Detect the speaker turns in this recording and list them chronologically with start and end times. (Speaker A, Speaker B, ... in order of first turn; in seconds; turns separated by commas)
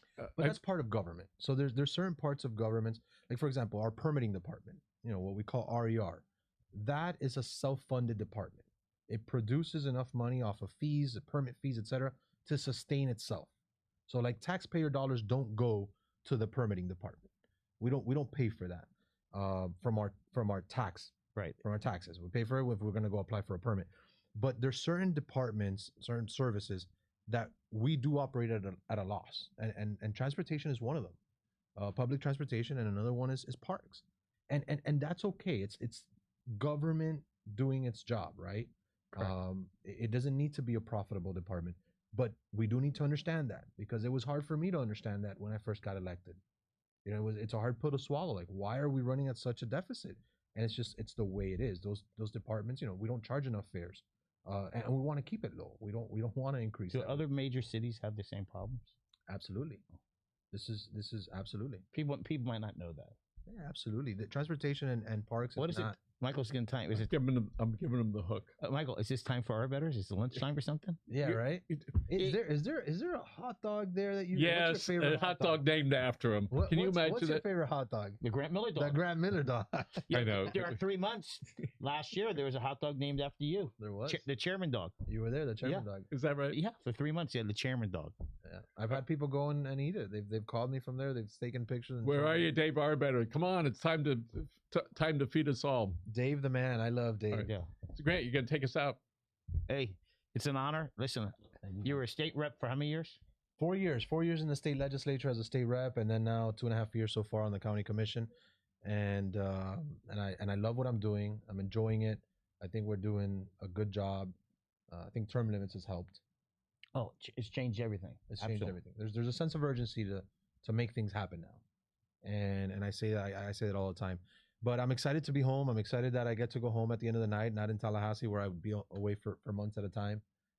Speaker A: 0.3-0.5, Speaker B: 0.3-13.5, Speaker B: 14.1-17.3, Speaker B: 17.8-31.2, Speaker B: 31.8-46.4, Speaker B: 47.0-57.2, Speaker C: 56.9-58.9, Speaker B: 59.3-59.8, Speaker B: 60.5-61.8, Speaker C: 61.9-63.1, Speaker B: 63.5-66.0, Speaker C: 65.6-67.1, Speaker A: 66.9-68.5, Speaker C: 68.6-71.0, Speaker B: 71.1-75.6, Speaker A: 71.2-71.9, Speaker A: 74.3-77.4, Speaker B: 76.5-78.2, Speaker C: 78.2-79.0, Speaker B: 78.8-80.1, Speaker C: 80.1-85.0, Speaker A: 80.1-80.8, Speaker B: 83.8-84.2, Speaker B: 85.0-86.1, Speaker A: 86.1-86.6, Speaker C: 86.5-88.1, Speaker B: 88.4-92.5, Speaker A: 92.0-96.0, Speaker B: 96.0-97.5, Speaker A: 97.3-99.0, Speaker C: 97.4-97.7, Speaker C: 99.7-103.2, Speaker B: 101.6-102.0, Speaker B: 103.6-108.3, Speaker B: 108.8-114.3, Speaker B: 114.9-116.2, Speaker C: 116.9-118.8, Speaker B: 118.3-121.6, Speaker B: 122.2-130.2